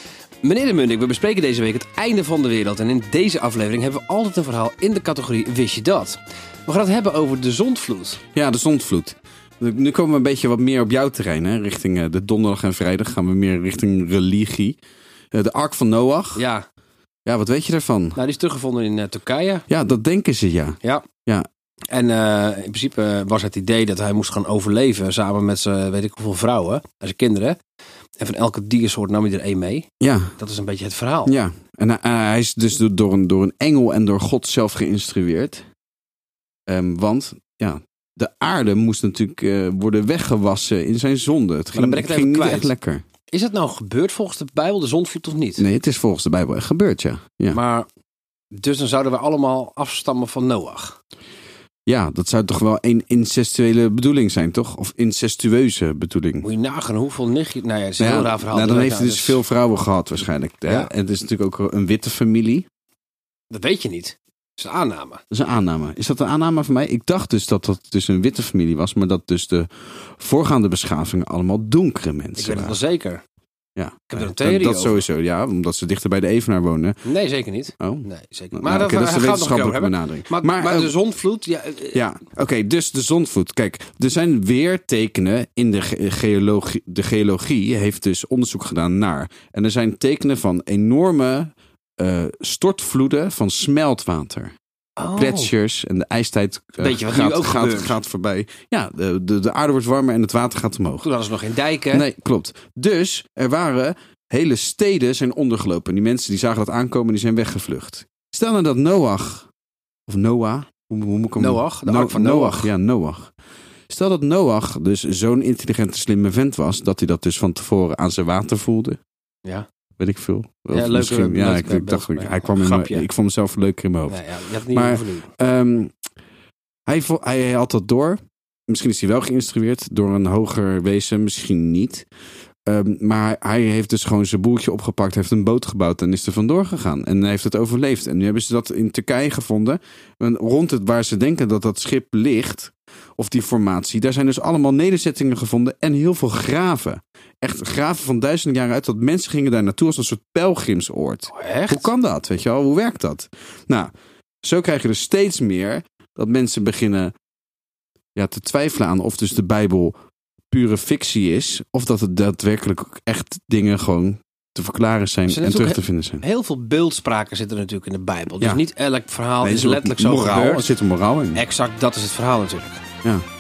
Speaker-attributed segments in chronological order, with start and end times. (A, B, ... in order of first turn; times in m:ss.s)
0:00.4-0:08.2 A
0:08.3-0:14.8 B
0:15.3-0:16.4 B
0:16.4-0:16.6 A
0:17.3-0:18.2 B
0:18.2-0:19.6 A
0:19.7-0:21.5 B
0:21.9-0:27.6 A
0:28.2-0:29.9 A
0:30.0-0:30.3 B
0:30.4-0:31.4 A
0:31.3-0:35.6 B
0:36.7-0:43.0 B
0:41.7-0:42.7 A
0:43.3-0:45.7 A
0:45.6-0:47.6 B
0:47.5-0:47.9 A
0:48.5-0:51.0 A
0:51.9-0:56.5 B
0:56.4-0:59.4 A
0:58.0-1:02.7 B
1:03.5-1:05.2 A
1:05.3-1:12.8 B
1:12.4-1:13.2 A
1:13.8-1:17.0 B
1:14.1-1:15.0 A
1:17.0-1:22.0 A
1:17.8-1:20.9 B
1:21.9-1:34.5 B
1:35.0-1:35.5 A
1:35.2-1:41.1 B
1:36.8-1:38.0 A
1:41.0-1:42.1 A
1:41.9-1:49.5 B
1:50.1-1:53.3 B
1:51.4-1:52.7 A
1:53.9-1:59.0 B
2:00.0-2:05.9 B
2:00.7-2:03.1 A
2:04.1-2:05.3 A
2:06.9-2:12.1 B
2:12.7-2:33.9 B
2:31.3-2:31.9 A
2:34.4-2:37.1 B
2:38.2-2:39.9 B
2:40.5-2:46.2 B
2:45.3-2:50.7 A
2:49.4-2:51.4 B
2:51.3-2:52.8 A